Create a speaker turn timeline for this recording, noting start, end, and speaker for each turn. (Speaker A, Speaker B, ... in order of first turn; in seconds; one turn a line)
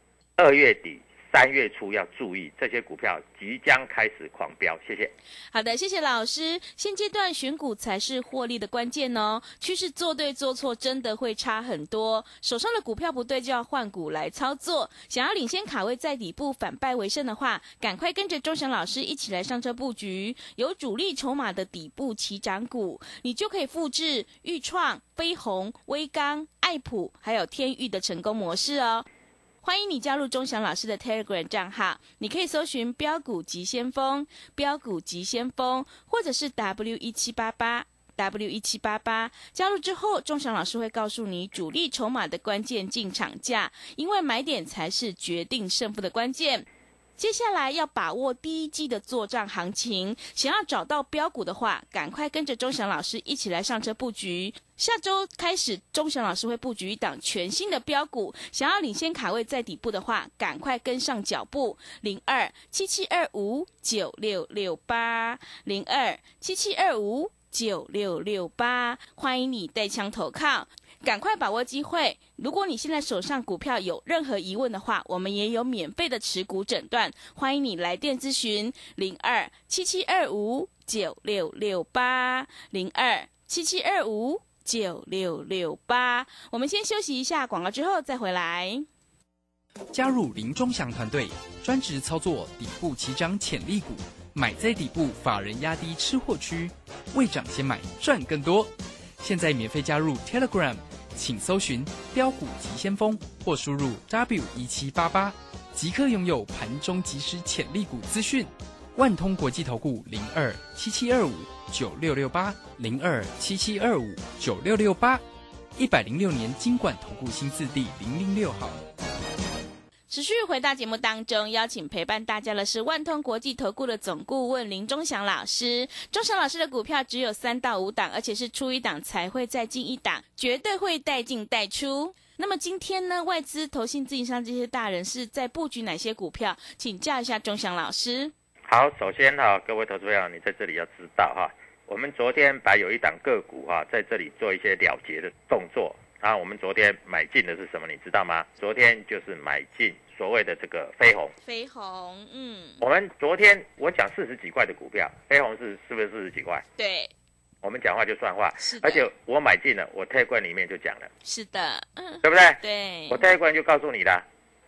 Speaker A: 0.4-5.1
Speaker B: 5.5-29.1
Speaker B: 29.6-46.6
Speaker B: 47.2-88.9
Speaker C: 89.9-115.2
Speaker C: 115.8-118.8
Speaker B: 120.1-138.3
Speaker A: 138.7-151.3
Speaker B: 151.4-152.8
Speaker A: 152.8-156.6
Speaker B: 156.8-157.1
Speaker A: 157.6-161.1
Speaker B: 158.6-159.1
Speaker B: 161.2-163.2
Speaker A: 162.2-164.2